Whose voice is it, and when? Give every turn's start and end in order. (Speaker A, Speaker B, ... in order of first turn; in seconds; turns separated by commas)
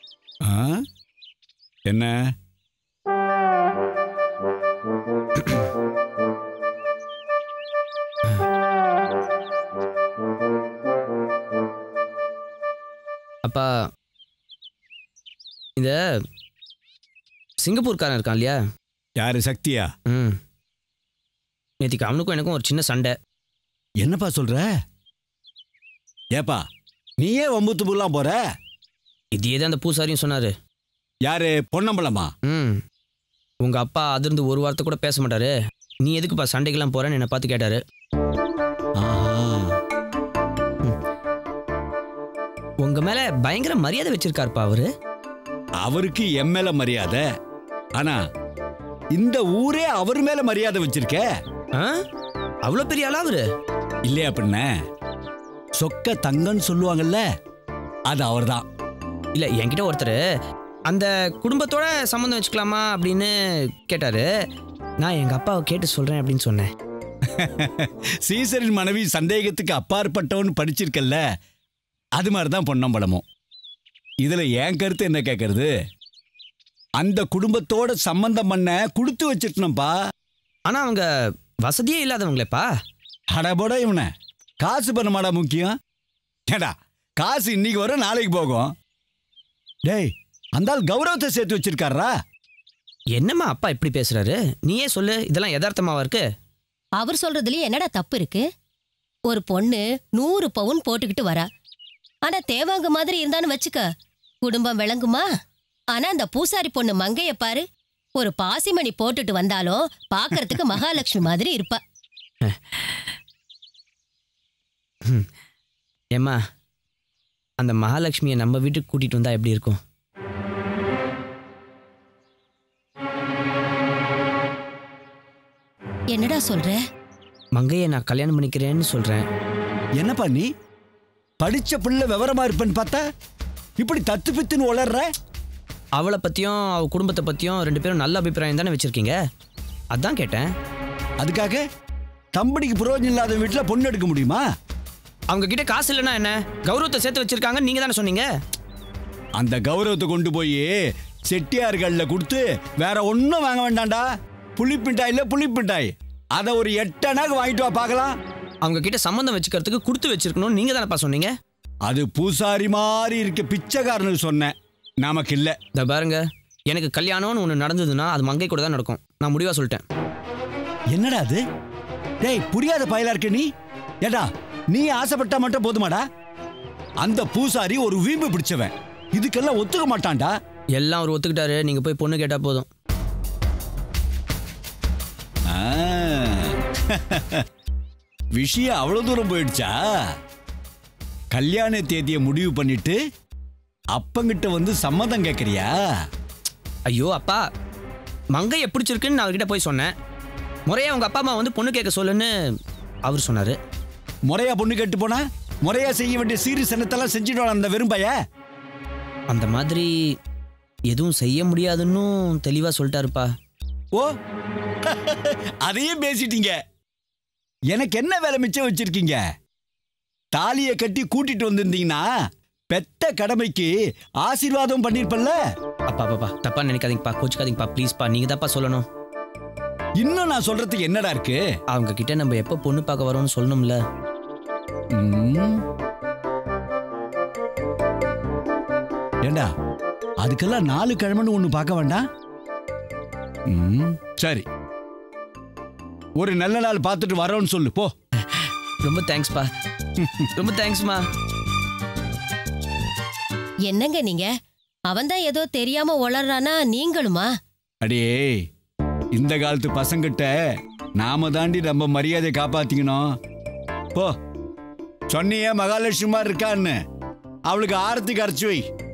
Speaker A: 0.4-0.8, Speaker A: 1.9-2.3, Speaker B: 13.4-13.7, Speaker B: 17.6-18.6, Speaker A: 19.2-19.9, Speaker B: 20.1-20.4, Speaker B: 21.8-23.1, Speaker A: 24.0-24.7, Speaker A: 27.2-28.4, Speaker B: 29.4-30.5, Speaker A: 31.2-32.3, Speaker B: 32.5-32.8, Speaker B: 33.6-37.8, Speaker A: 39.0-39.8, Speaker B: 42.8-44.9, Speaker A: 45.8-47.2, Speaker A: 49.1-51.2, Speaker B: 51.7-52.0, Speaker B: 52.6-53.4, Speaker A: 54.0-54.7, Speaker A: 55.8-57.2, Speaker A: 58.1-58.6, Speaker B: 59.3-60.2, Speaker B: 60.9-64.3, Speaker B: 65.0-66.7, Speaker A: 67.3-71.2, Speaker A: 72.2-73.2, Speaker A: 74.2-75.7, Speaker A: 77.0-79.9, Speaker B: 80.7-81.1, Speaker B: 81.7-82.7, Speaker A: 83.3-84.1, Speaker A: 84.6-85.7, Speaker A: 86.5-88.7, Speaker A: 89.8-92.1, Speaker B: 93.1-96.2, Speaker C: 97.0-98.4, Speaker C: 99.3-101.5, Speaker C: 102.2-103.8, Speaker C: 104.4-105.2, Speaker C: 105.9-107.6, Speaker C: 108.2-111.8, Speaker B: 112.4-113.0, Speaker B: 117.6-119.8, Speaker C: 126.1-126.8, Speaker B: 127.5-129.2, Speaker A: 130.0-130.4, Speaker A: 131.4-133.0, Speaker A: 133.8-135.0, Speaker B: 135.9-139.2, Speaker B: 139.9-140.5, Speaker A: 141.2-141.6, Speaker A: 142.3-144.4, Speaker B: 145.3-148.3, Speaker A: 149.3-150.7, Speaker A: 151.3-154.0, Speaker A: 154.6-158.2, Speaker B: 158.6-161.3, Speaker A: 161.8-165.6, Speaker B: 165.7-169.8, Speaker A: 170.9-171.4, Speaker A: 172.2-173.5, Speaker A: 174.0-176.0, Speaker A: 177.0-180.3, Speaker B: 180.8-182.7, Speaker A: 185.5-187.4, Speaker A: 188.3-189.8, Speaker A: 191.3-193.0, Speaker A: 193.9-195.7, Speaker B: 196.9-197.4, Speaker B: 198.3-199.9, Speaker B: 200.7-202.3, Speaker B: 203.1-203.6, Speaker A: 204.3-208.1, Speaker B: 209.3-209.9, Speaker B: 210.9-213.3, Speaker A: 214.8-216.5, Speaker A: 217.7-219.2, Speaker A: 220.3-222.0, Speaker A: 222.7-223.7, Speaker A: 224.2-225.3, Speaker B: 225.9-228.8, Speaker A: 230.0-231.4, Speaker B: 231.7-233.8, Speaker A: 234.9-235.6, Speaker A: 240.2-242.0, Speaker A: 243.5-244.4, Speaker A: 246.2-247.9, Speaker B: 248.3-249.5, Speaker A: 250.0-250.3, Speaker B: 250.3-251.0, Speaker C: 253.7-254.3, Speaker C: 254.9-257.3, Speaker A: 257.8-258.4, Speaker A: 259.1-260.3, Speaker A: 261.0-263.0, Speaker A: 265.1-266.8, Speaker A: 267.5-268.6